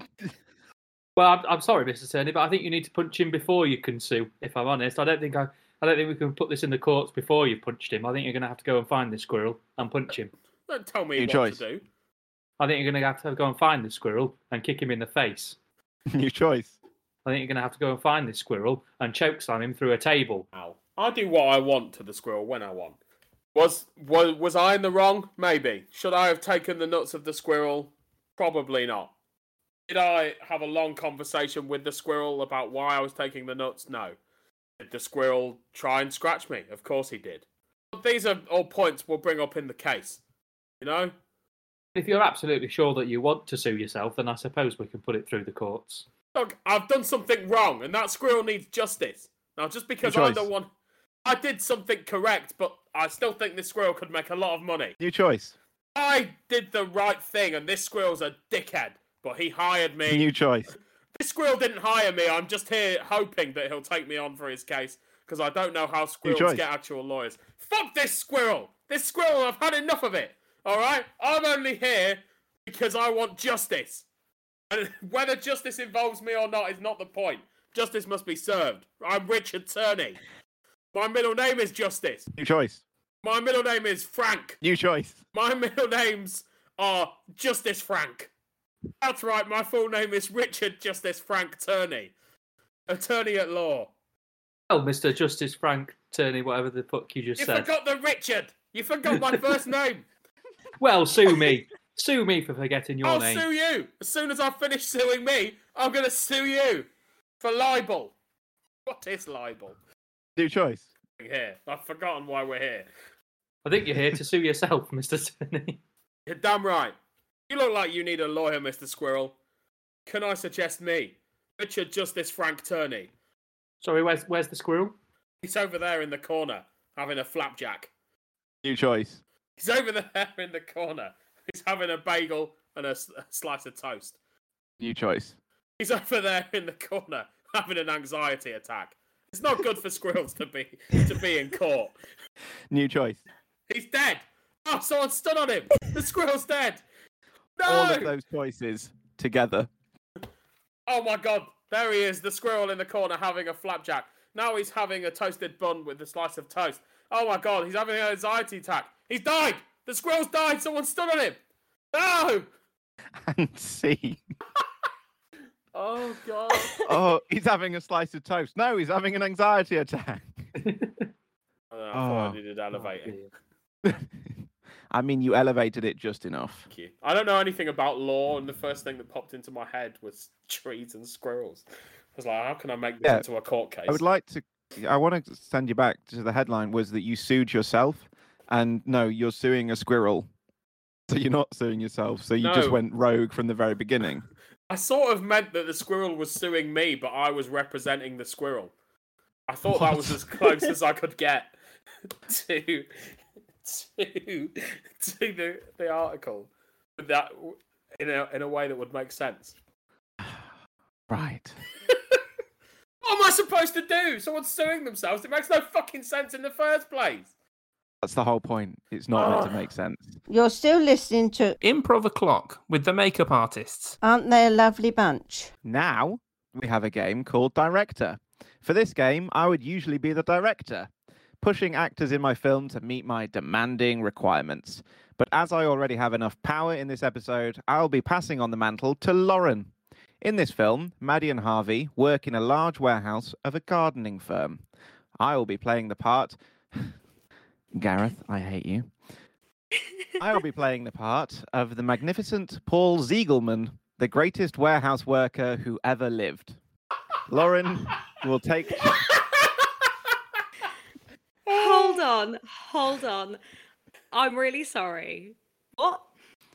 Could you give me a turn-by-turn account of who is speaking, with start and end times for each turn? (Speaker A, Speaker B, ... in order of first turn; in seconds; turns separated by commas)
Speaker A: 1.2-10.3, Speaker B: 10.7-11.8, Speaker C: 11.2-11.6, Speaker A: 12.6-15.6, Speaker C: 16.1-16.7, Speaker A: 17.2-20.5, Speaker B: 20.5-23.0, Speaker B: 23.5-29.1, Speaker B: 29.9-34.2, Speaker B: 34.8-40.2, Speaker B: 40.8-41.1, Speaker A: 42.0-46.0, Speaker B: 46.4-50.7, Speaker C: 50.0-50.5, Speaker B: 51.2-55.0, Speaker C: 55.0-55.6, Speaker B: 56.0-60.3, Speaker C: 60.1-60.7, Speaker B: 61.1-74.0, Speaker C: 66.2-66.6, Speaker B: 74.7-80.2, Speaker B: 80.9-82.3, Speaker C: 82.3-82.8, Speaker B: 83.2-84.6, Speaker C: 84.6-85.2, Speaker B: 85.3-88.3, Speaker B: 89.0-92.1, Speaker B: 92.9-93.9, Speaker A: 94.7-97.7, Speaker B: 97.4-100.0, Speaker A: 100.8-103.5, Speaker B: 103.0-106.9, Speaker B: 107.4-108.2, Speaker B: 108.9-109.8, Speaker C: 110.4-110.9, Speaker B: 111.2-112.9, Speaker A: 113.7-115.8, Speaker B: 116.3-117.0, Speaker B: 117.5-119.4, Speaker B: 120.1-123.1, Speaker A: 123.8-125.0, Speaker B: 125.4-127.9, Speaker C: 128.6-129.2, Speaker B: 129.6-134.2, Speaker C: 134.8-135.4, Speaker B: 135.8-141.9, Speaker C: 142.7-143.2, Speaker B: 143.7-146.8, Speaker B: 147.6-148.2, Speaker C: 147.7-149.7, Speaker B: 150.9-161.4, Speaker B: 161.9-162.5, Speaker C: 163.2-164.2, Speaker B: 165.7-166.8, Speaker C: 166.8-170.5, Speaker A: 170.6-171.1, Speaker B: 171.7-173.2, Speaker C: 171.9-172.4, Speaker A: 172.7-173.3, Speaker C: 173.8-176.7, Speaker B: 176.7-184.0, Speaker C: 183.9-190.3, Speaker C: 191.1-194.3, Speaker B: 192.4-192.8, Speaker B: 194.7-198.7, Speaker B: 199.5-201.5, Speaker C: 199.7-200.2, Speaker B: 202.3-203.0, Speaker B: 203.6-209.6, Speaker C: 210.2-210.5, Speaker C: 211.1-211.6, Speaker B: 211.9-212.2, Speaker B: 213.0-217.3, Speaker C: 218.0-220.2, Speaker B: 219.1-219.7, Speaker D: 220.3-221.6, Speaker E: 221.6-224.0, Speaker D: 224.0-225.5, Speaker C: 225.6-230.9, Speaker C: 231.4-244.6, Speaker C: 245.2-246.9, Speaker C: 247.7-248.9, Speaker C: 250.2-256.6, Speaker C: 257.3-259.1, Speaker B: 261.5-262.1, Speaker F: 261.5-263.4, Speaker F: 264.1-266.1